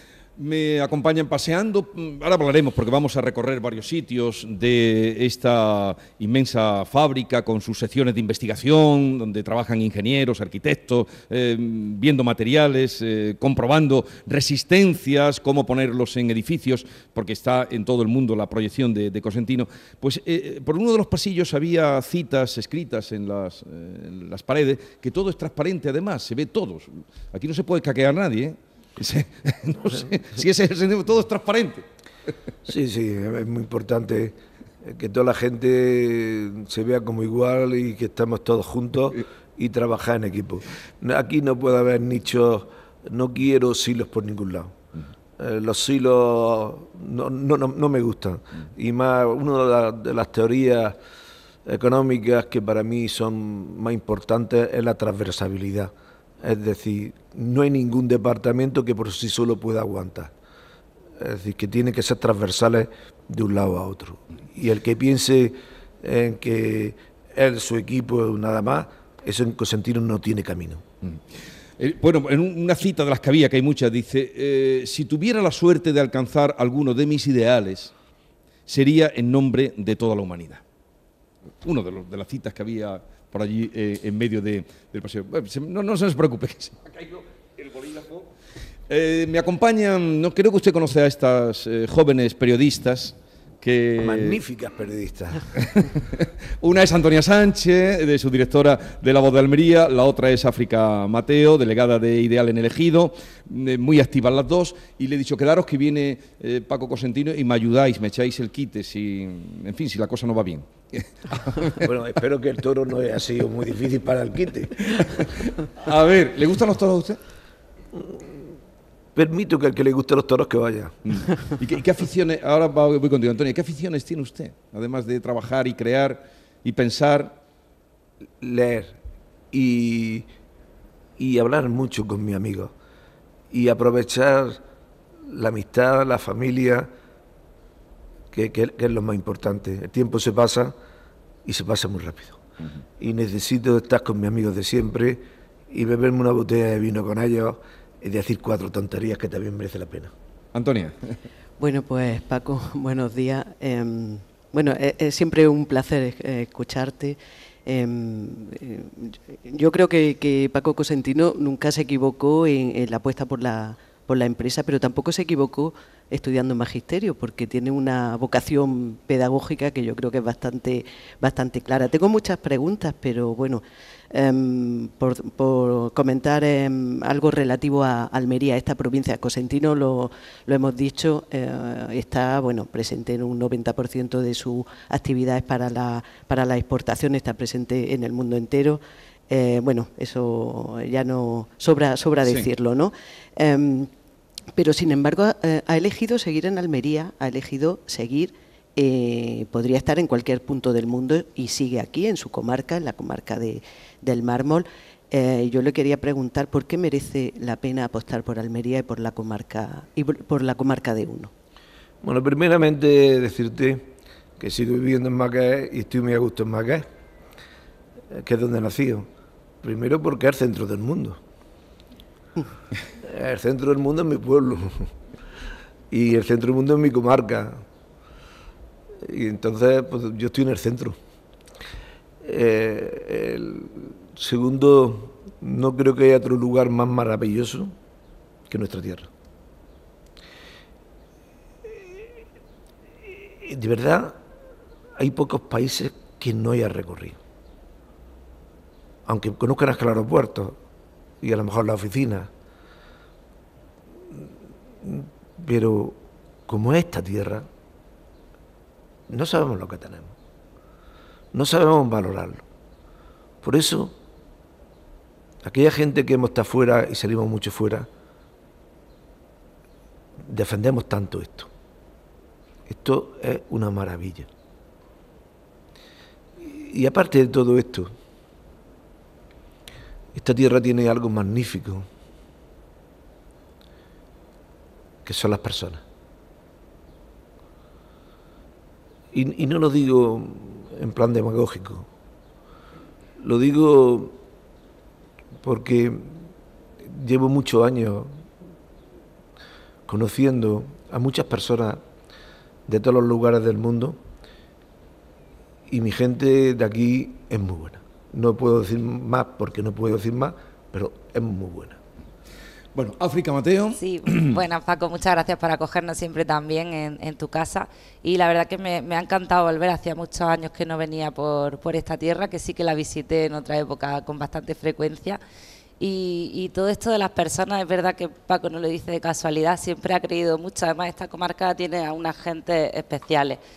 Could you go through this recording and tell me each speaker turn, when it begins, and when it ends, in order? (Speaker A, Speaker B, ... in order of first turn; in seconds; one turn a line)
Speaker A: 0.4-31.8
Speaker B: 32.7-44.8
Speaker B: 45.4-51.0
Speaker B: 51.6-60.3
Speaker B: 61.2-70.8
Speaker A: 71.8-77.9
Speaker A: 78.7-80.6
Speaker A: 81.6-88.3
Speaker A: 88.9-94.4
Speaker B: 94.0-95.5
Speaker A: 95.5-111.8
Speaker B: 111.8-115.3
Speaker A: 115.0-117.2
Speaker B: 118.0-118.3
Speaker B: 119.1-121.1
Speaker A: 121.0-127.4
Speaker B: 128.4-129.0
Speaker B: 129.5-130.3
Speaker B: 131.2-132.7
Speaker B: 133.5-134.6
Speaker B: 135.2-136.9
Speaker B: 138.3-140.7
Speaker B: 141.4-142.4
Speaker B: 143.0-150.1
Speaker A: 150.5-151.0
Speaker C: 151.6-193.9
Speaker C: 194.5-211.3
Speaker B: 212.0-216.8
Speaker B: 218.1-219.1
Speaker B: 219.6-221.2
Speaker B: 223.0-224.9
Speaker B: 225.9-227.6
Speaker B: 229.0-231.0
Speaker B: 232.2-237.7
Speaker B: 238.5-239.1
Speaker B: 243.3-244.2
Speaker B: 245.0-247.2
Speaker B: 249.1-250.6
Speaker B: 251.2-252.3
Speaker B: 254.8-257.5
Speaker B: 259.1-260.1
Speaker B: 261.3-262.4
Speaker B: 263.4-263.9
Speaker B: 265.4-267.9
Speaker B: 270.2-271.5
Speaker B: 272.7-274.3
Speaker B: 276.4-277.9
Speaker B: 280.1-281.8
Speaker B: 285.0-285.8
Speaker B: 289.1-291.9
Speaker B: 293.2-294.2
Speaker B: 295.4-296.2
Speaker B: 296.8-298.2
Speaker B: 299.9-301.8
Speaker B: 302.7-304.0
Speaker B: 305.7-311.8
Speaker A: 312.8-314.4
Speaker D: 313.8-325.2
Speaker D: 325.8-333.4